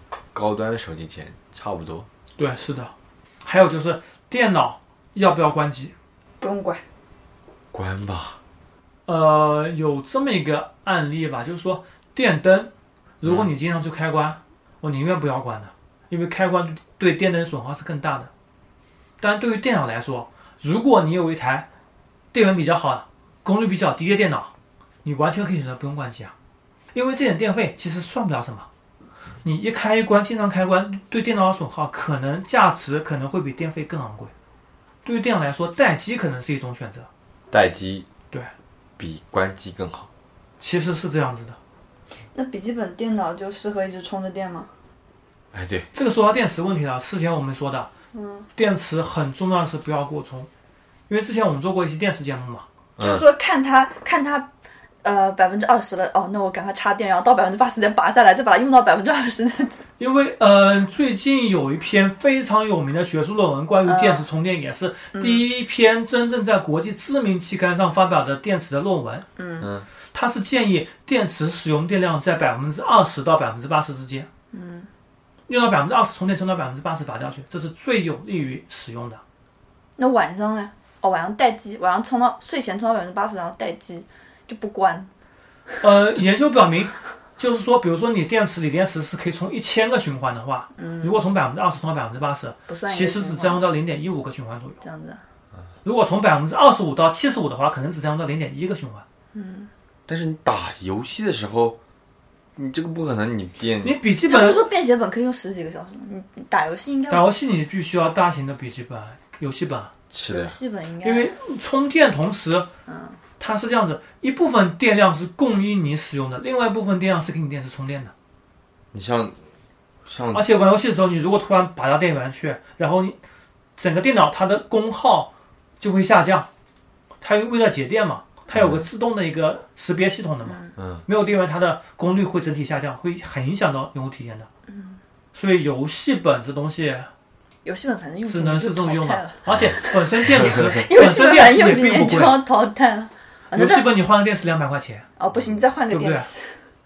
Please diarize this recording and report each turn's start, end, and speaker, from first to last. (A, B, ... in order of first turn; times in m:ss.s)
0:00.3-0:02.1 A
0:02.4-0:05.9 B
0:06.4-0:06.8 C
0:07.7-0:08.4 A
0:09.1-0:18.3 B
0:13.2-0:13.5 A
0:19.2-0:21.7 B
0:22.3-0:24.5 B
0:25.0-0:26.3 B
0:26.9-0:28.7 B
0:29.4-0:34.3 B
0:35.0-0:37.1 B
0:37.5-0:38.1 A
0:39.0-0:40.1 A
0:40.6-0:41.6 B
0:42.3-0:44.7 C
0:45.5-0:45.9 A
0:45.9-0:47.9 B
0:48.1-0:48.5 C
0:48.6-0:50.5 B
0:51.1-0:52.7 B
0:53.0-0:53.2 A
0:53.0-0:54.5 C
0:55.0-0:59.8 C
1:00.0-1:09.3 B
1:03.8-1:04.2 C
1:05.1-1:05.4 C
1:09.4-1:09.7 C
1:09.6-1:09.9 A
1:10.1-1:14.3 B
1:14.5-1:14.9 C
1:15.5-1:19.2 B
1:20.0-1:25.1 C
1:25.8-1:34.8 B
1:30.8-1:31.2 C
1:32.7-1:33.6 C
1:34.8-1:35.2 C
1:35.8-1:39.0 B
1:39.3-1:39.7 C
1:40.1-1:41.8 A
1:42.6-1:44.0 A
1:43.8-1:44.6 B
1:44.3-1:47.3 C
1:47.1-1:49.9 B
1:50.1-1:50.6 A
1:50.3-1:51.3 C
1:51.0-1:52.7 B
1:52.9-1:53.2 C
1:53.4-1:58.1 B
1:58.9-1:59.4 A
2:00.0-2:00.5 A
2:00.3-2:03.2 B
2:03.8-2:06.5 B
2:07.2-2:14.5 B
2:08.5-2:08.9 A
2:10.5-2:10.7 C
2:10.8-2:11.1 A
2:14.7-2:15.0 C
2:15.3-2:17.1 B
2:17.6-2:23.9 C
2:18.3-2:22.4 B
2:19.5-2:19.8 A
2:20.3-2:20.7 A
2:23.5-2:25.1 B
2:25.2-2:26.6 C
2:25.3-2:25.6 A
2:25.9-2:26.3 B